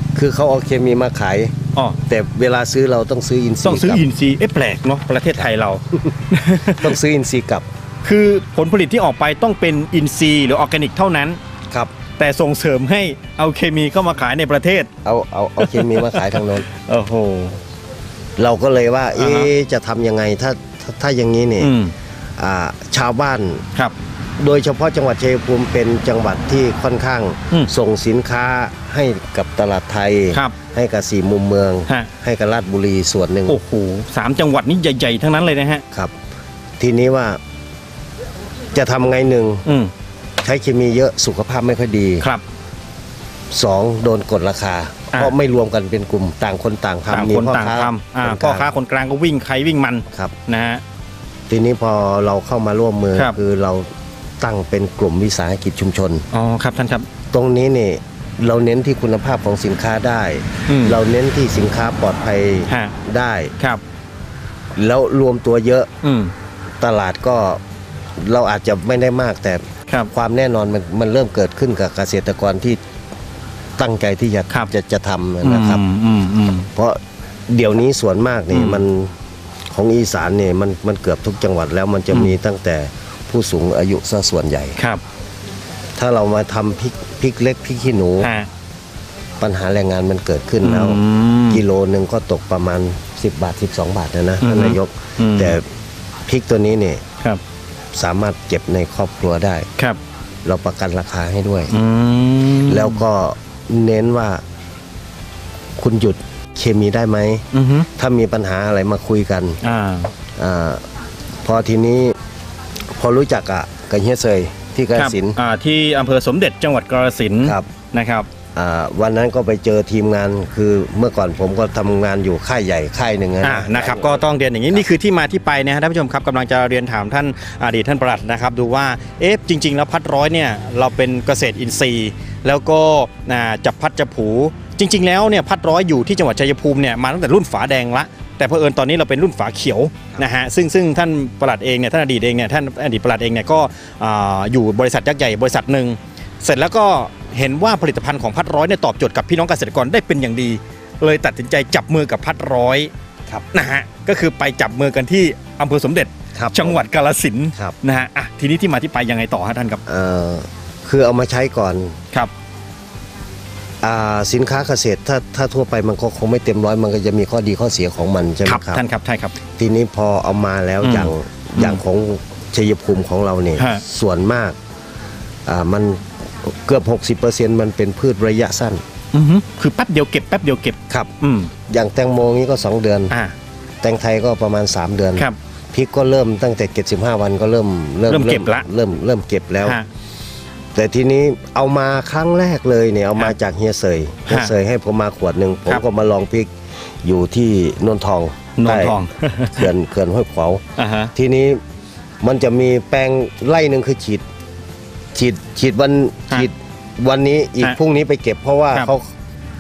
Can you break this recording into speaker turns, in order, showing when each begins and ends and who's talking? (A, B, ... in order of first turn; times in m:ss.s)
0:00.1-0:04.0 A
0:03.6-0:07.0 B
0:06.7-0:07.7 A
0:08.0-0:11.4 B
0:12.2-0:14.9 B
0:15.0-0:16.6 A
0:15.6-0:17.6 B
0:18.4-0:21.7 A
0:19.2-0:19.5 B
0:21.6-0:21.9 B
0:22.4-0:23.6 A
0:24.4-0:33.6 A
0:33.5-0:35.8 B
0:36.8-0:37.4 A
0:38.7-0:39.6 A
0:39.6-0:39.9 B
0:40.4-0:42.3 A
0:43.5-0:48.7 A
0:47.1-0:50.8 B
0:51.5-0:53.9 A
0:54.4-0:56.2 A
0:56.3-0:57.1 B
0:57.3-1:03.5 A
1:00.7-1:01.0 B
1:02.7-1:02.9 B
1:04.8-1:05.9 A
1:06.0-1:06.3 B
1:06.8-1:07.6 A
1:08.2-1:12.8 A
1:13.8-1:15.8 A
1:15.4-1:16.7 B
1:16.7-1:19.2 A
1:18.5-1:18.8 B
1:19.7-1:24.8 A
1:26.0-1:28.3 A
1:28.2-1:28.5 B
1:29.4-1:35.6 A
1:30.6-1:31.6 B
1:34.4-1:35.6 B
1:36.3-1:37.0 A
1:37.9-1:39.7 A
1:40.4-1:41.7 A
1:41.7-1:43.0 B
1:42.7-1:44.4 A
1:45.8-1:49.6 A
1:47.5-1:47.9 B
1:49.6-1:50.1 B
1:50.4-1:50.8 A
1:51.4-1:52.1 A
1:53.0-1:55.4 A
1:54.9-1:58.3 B
1:58.5-2:04.2 A
2:03.4-2:32.9 B
2:33.5-2:39.8 B
2:36.3-2:36.8 A
2:39.8-2:42.0 A
2:43.8-2:48.8 A
2:48.4-2:49.3 B
2:49.6-2:54.6 A
2:50.8-2:51.8 B
2:53.6-2:53.8 B
2:55.5-2:58.8 A
2:59.1-3:01.5 B
3:01.7-3:03.1 A
3:03.8-3:09.8 A
3:08.1-3:08.6 B
3:10.7-3:16.5 A
3:17.0-3:19.0 A
3:18.6-3:19.7 B
3:19.5-3:20.6 A
3:20.8-3:21.1 B
3:21.1-3:21.6 A
3:22.2-3:24.2 A
3:25.1-3:29.1 A